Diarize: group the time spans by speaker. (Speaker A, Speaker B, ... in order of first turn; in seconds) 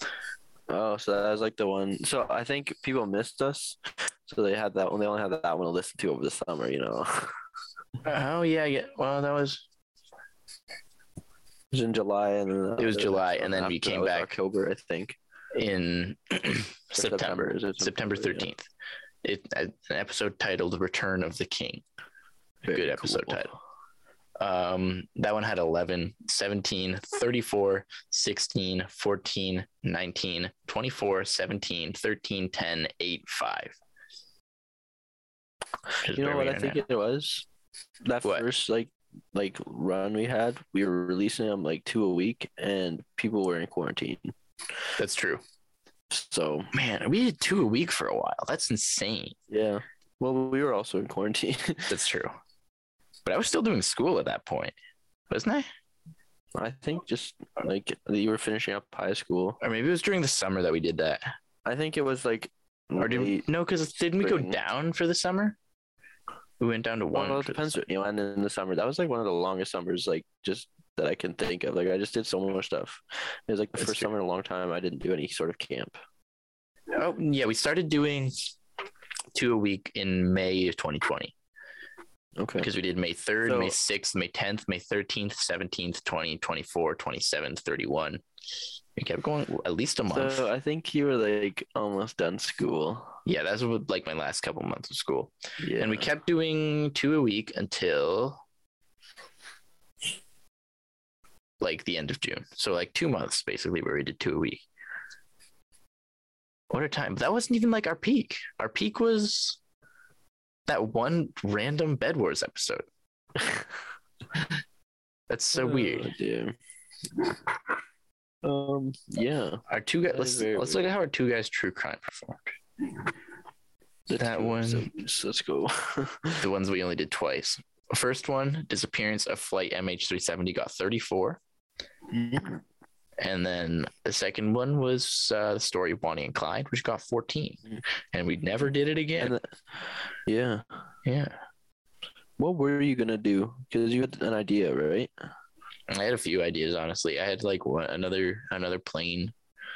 Speaker A: 0.7-7.3, 11.7-15.2, 16.9-18.5, 22.6-23.5, 36.1-37.5, 38.0-44.3, 46.1-46.7, 49.5-52.0, 56.5-59.6, 61.6-63.5, 64.2-64.6, 67.1-76.0, 82.4-82.7, 83.4-83.8, 90.1-93.2, 95.6-96.1, 115.5-116.5, 118.4-120.8, 124.1-126.4, 132.1-132.6, 139.2-139.5, 140.2-140.7, 142.4-145.1
Speaker B: 8.0-9.7, 12.8-14.3, 15.5-18.6, 19.2-21.8, 22.7-23.5, 24.4-33.8, 36.0-36.8, 45.0-45.4, 46.7-49.4, 51.9-52.3, 53.2-54.7, 55.3-55.7, 59.6-61.3, 63.0-65.6, 66.6-67.8, 73.8-74.1, 76.9-78.5, 79.3-81.3, 82.6-88.2, 89.0-90.5, 93.2-98.4, 101.6-104.6, 106.7-109.6, 110.7-112.8, 115.3-116.1, 119.7-122.5, 124.1-124.9, 126.4-131.4, 133.2-137.6, 138.1-139.3, 141.0-141.4, 145.9-149.3